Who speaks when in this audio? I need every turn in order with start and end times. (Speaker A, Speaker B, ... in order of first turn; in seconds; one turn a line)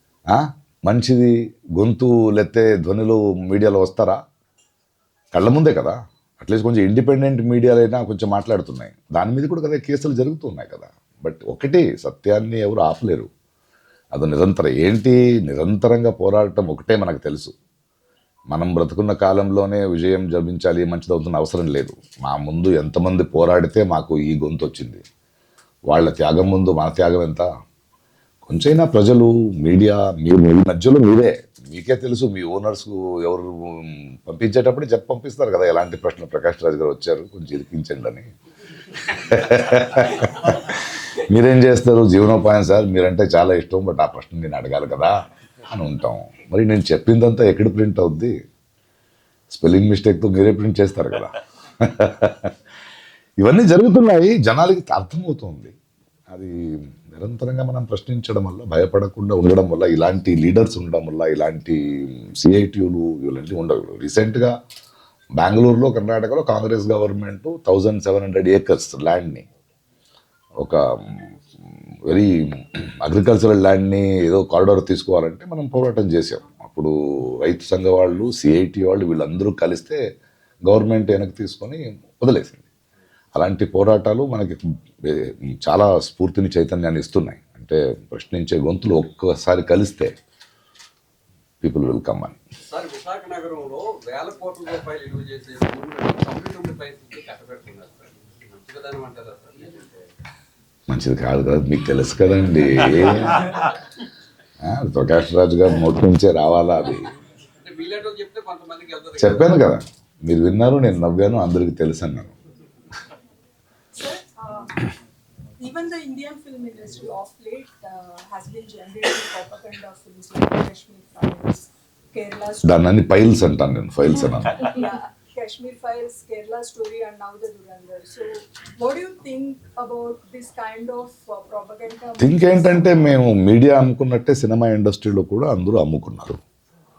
Speaker A: 0.3-4.2
Speaker A: 5.3-13.3
Speaker A: 14.1-17.5
Speaker A: 18.5-25.0
Speaker A: 25.9-27.5
Speaker A: 28.4-38.3
Speaker A: 38.9-45.1
Speaker A: 45.7-48.3
Speaker A: 49.5-52.5
Speaker A: 53.4-55.7
Speaker A: 56.3-64.5
Speaker A: 65.4-69.5
Speaker A: 70.6-71.3
Speaker A: 72.1-76.9
Speaker A: 77.4-80.0
Speaker A: 80.7-82.6
Speaker A: 83.3-90.1
Speaker A: 91.6-92.4
Speaker B: 92.6-99.8
Speaker A: 100.9-103.4
Speaker A: 104.6-107.1
Speaker B: 107.6-109.5
Speaker A: 109.2-112.3
Speaker C: 113.9-114.7
Speaker C: 115.6-122.8
Speaker A: 122.6-124.7
Speaker C: 124.6-133.0
Speaker A: 132.2-136.4